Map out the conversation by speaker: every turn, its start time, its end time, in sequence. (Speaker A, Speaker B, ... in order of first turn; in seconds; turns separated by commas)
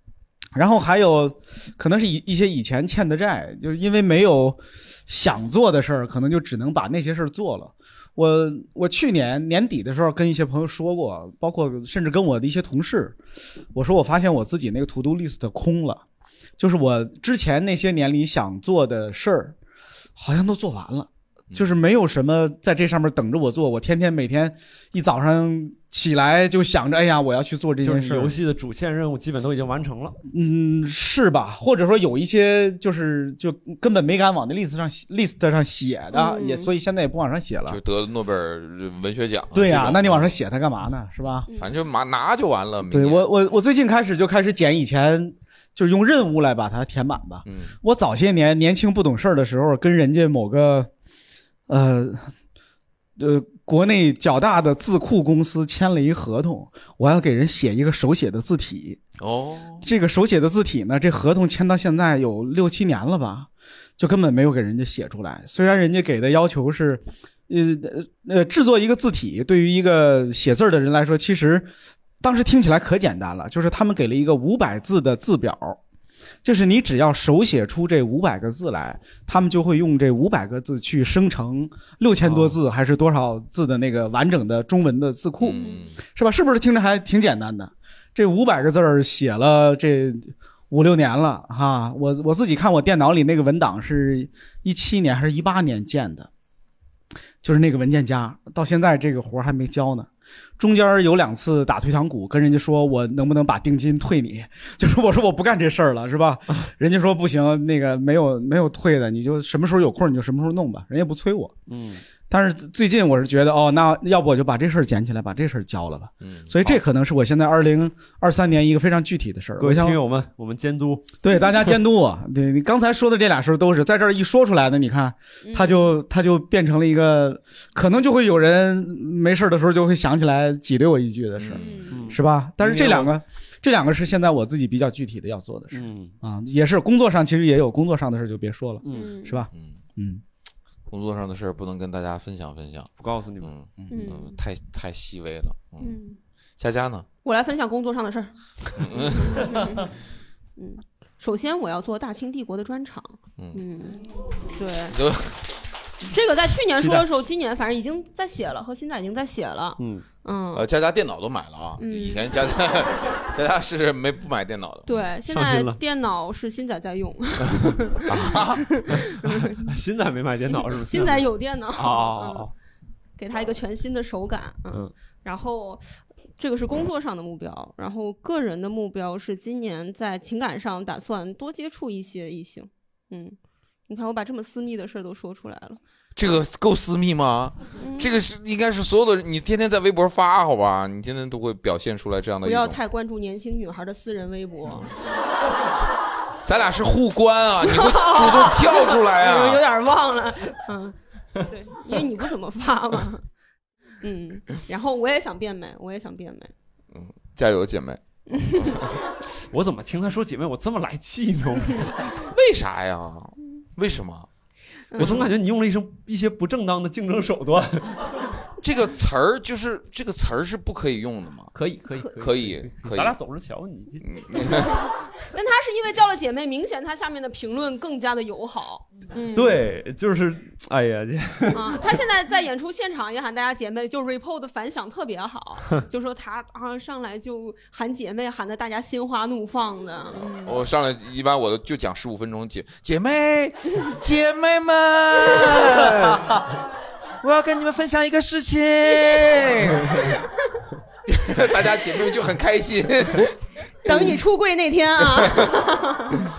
Speaker A: 0.5-13.2, Speaker A: 13.7-16.0, Speaker A: 16.6-19.5, Speaker A: 20.1-28.3, Speaker B: 27.8-30.2, Speaker A: 30.3-37.8, Speaker C: 36.1-36.7, Speaker D: 37.7-40.4, Speaker A: 39.5-41.5, Speaker C: 41.5-41.7, Speaker D: 41.5-43.3, Speaker A: 42.9-50.9, Speaker D: 47.4-47.7, Speaker A: 51.7-52.3, Speaker A: 53.2-59.0, Speaker D: 59.2-59.8, Speaker A: 59.8-71.7, Speaker A: 72.2-75.8, Speaker A: 76.4-96.3, Speaker B: 82.2-82.6, Speaker D: 85.4-86.0, Speaker C: 85.5-85.9, Speaker A: 97.4-100.1, Speaker A: 100.6-111.5, Speaker B: 111.7-112.0, Speaker A: 112.3-120.0, Speaker D: 116.2-116.7, Speaker B: 119.6-121.2, Speaker A: 121.2-140.2, Speaker C: 125.4-125.9, Speaker D: 131.4-131.9, Speaker C: 131.6-132.0, Speaker B: 131.9-133.1, Speaker B: 135.7-136.1, Speaker B: 138.8-139.2, Speaker C: 138.9-139.4, Speaker D: 139.5-139.8, Speaker D: 140.9-145.9, Speaker B: 143.0-143.5, Speaker C: 143.9-144.4, Speaker C: 145.8-146.2, Speaker D: 146.6-147.1, Speaker C: 147.2-149.9, Speaker D: 148.8-149.6, Speaker C: 150.6-155.0, Speaker D: 154.9-155.4, Speaker C: 156.1-160.7, Speaker B: 156.8-157.1, Speaker B: 159.8-160.0, Speaker D: 160.5-164.9, Speaker C: 161.8-162.3, Speaker C: 164.8-169.6, Speaker B: 165.3-165.8, Speaker B: 167.5-172.5, Speaker D: 168.2-168.6, Speaker C: 170.5-172.5, Speaker C: 173.2-183.4, Speaker C: 183.9-185.8, Speaker D: 186.2-192.8, Speaker C: 187.8-188.1, Speaker C: 192.4-194.9, Speaker D: 196.4-199.6, Speaker C: 197.6-203.2, Speaker C: 204.0-206.5, Speaker D: 206.9-208.0, Speaker C: 208.3-208.8, Speaker B: 209.3-212.0, Speaker D: 212.3-214.3, Speaker C: 214.9-215.3, Speaker D: 215.0-215.3, Speaker B: 215.0-218.3, Speaker D: 218.6-221.5, Speaker B: 221.5-224.0, Speaker D: 222.2-223.2, Speaker D: 224.0-224.7, Speaker C: 225.3-229.6, Speaker B: 229.3-231.9, Speaker C: 231.5-240.7, Speaker D: 240.4-246.4, Speaker D: 247.2-250.1, Speaker D: 251.1-254.1, Speaker C: 253.8-256.1, Speaker D: 255.1-255.5